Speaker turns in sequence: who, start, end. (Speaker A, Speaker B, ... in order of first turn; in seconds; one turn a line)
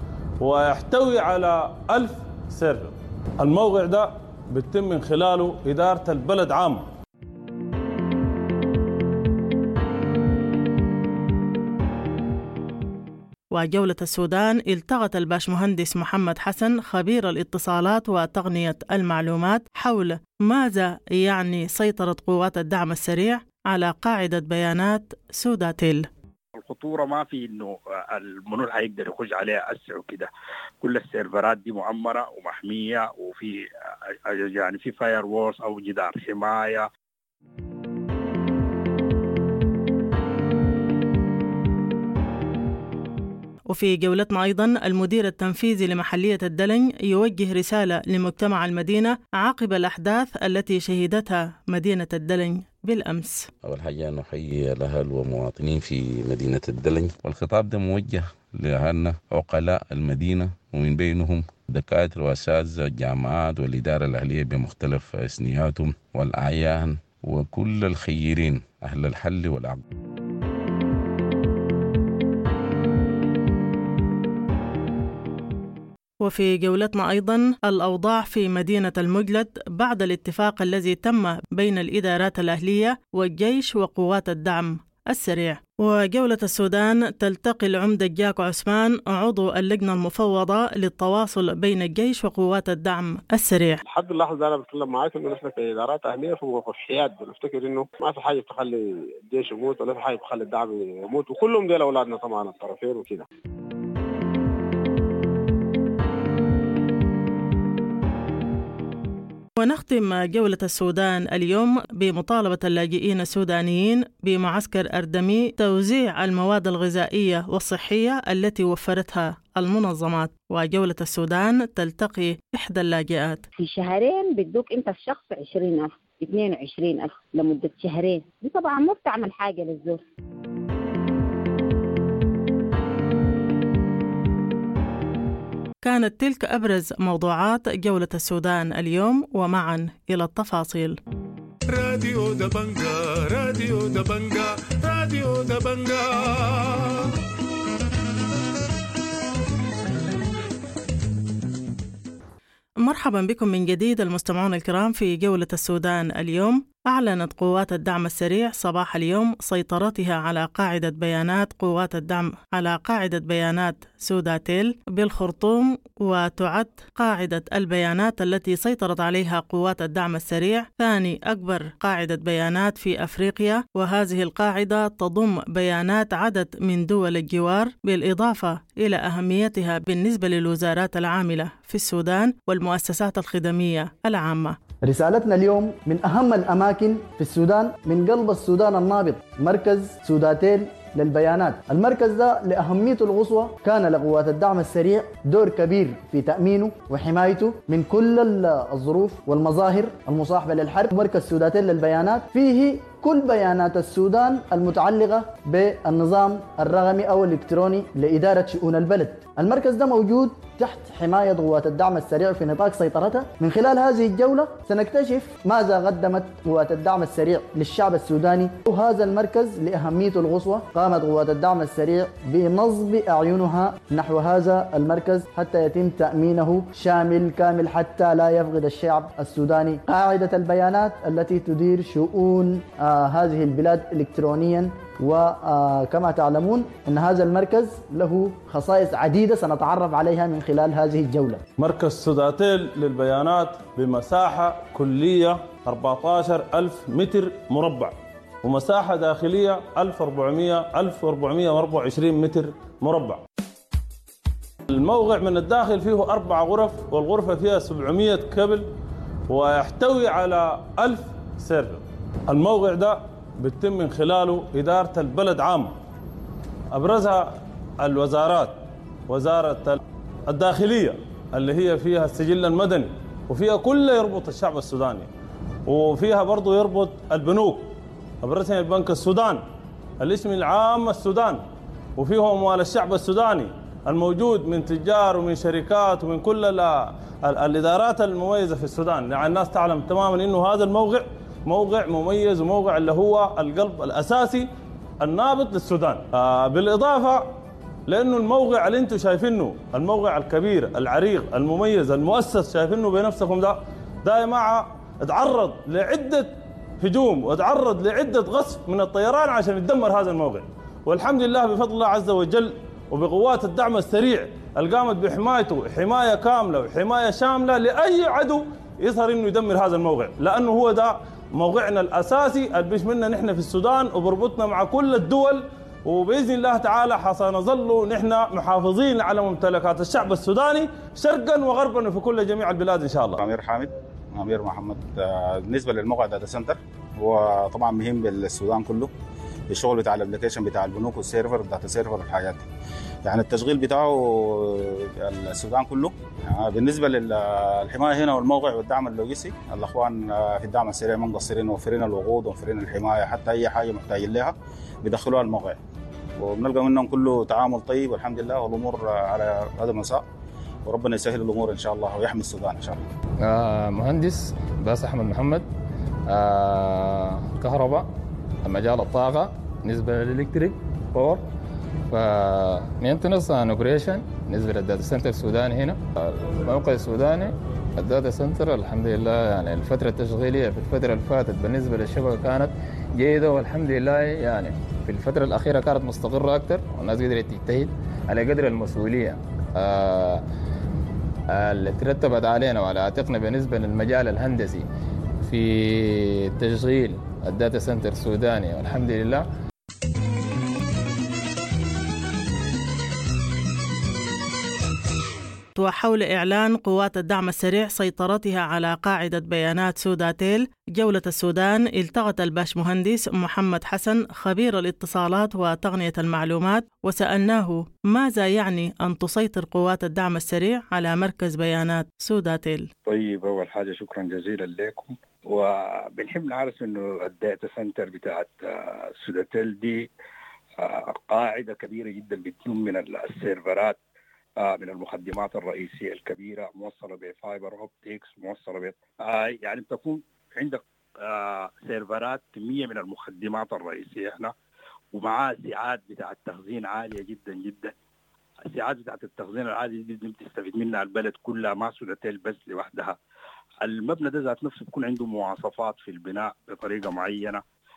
Speaker A: 0.4-6.8
Speaker B: 13.5-26.1
Speaker C: 26.5-30.3
Speaker C: 30.8-36.9
Speaker B: 43.7-53.5
Speaker D: 53.6-69.8
Speaker B: 76.2-93.8
Speaker E: 93.8-103.2
Speaker B: 109.6-123.4
Speaker F: 123.6-130.0
Speaker B: 135.8-141.0
Speaker G: 141.7-147.1
Speaker B: 152.8-184.6
Speaker H: 184.8-241.4
Speaker A: 241.6-253.2
Speaker A: 254.7-258.7
Speaker A: 259.3-265.7
Speaker A: 266.7-275.1
Speaker A: 275.6-279.4
Speaker A: 280.0-281.4
Speaker A: 282.0-294.5
Speaker A: 295.0-297.3
Speaker A: 297.9-333.2
Speaker I: 333.2-338.9
Speaker I: 339.5-342.5
Speaker I: 343.0-355.6
Speaker I: 356.2-360.0
Speaker I: 360.7-362.8
Speaker J: 363.2-365.4
Speaker J: 366.1-367.9
Speaker J: 368.4-371.2
Speaker J: 371.9-390.2
Speaker J: 391.3-394.6
Speaker J: 395.2-399.3
Speaker B: 405.6-422.7
Speaker C: 422.9-429.9
Speaker C: 430.6-433.8
Speaker C: 434.4-444.3
Speaker C: 444.9-447.7
Speaker C: 448.4-453.0
Speaker C: 453.6-457.4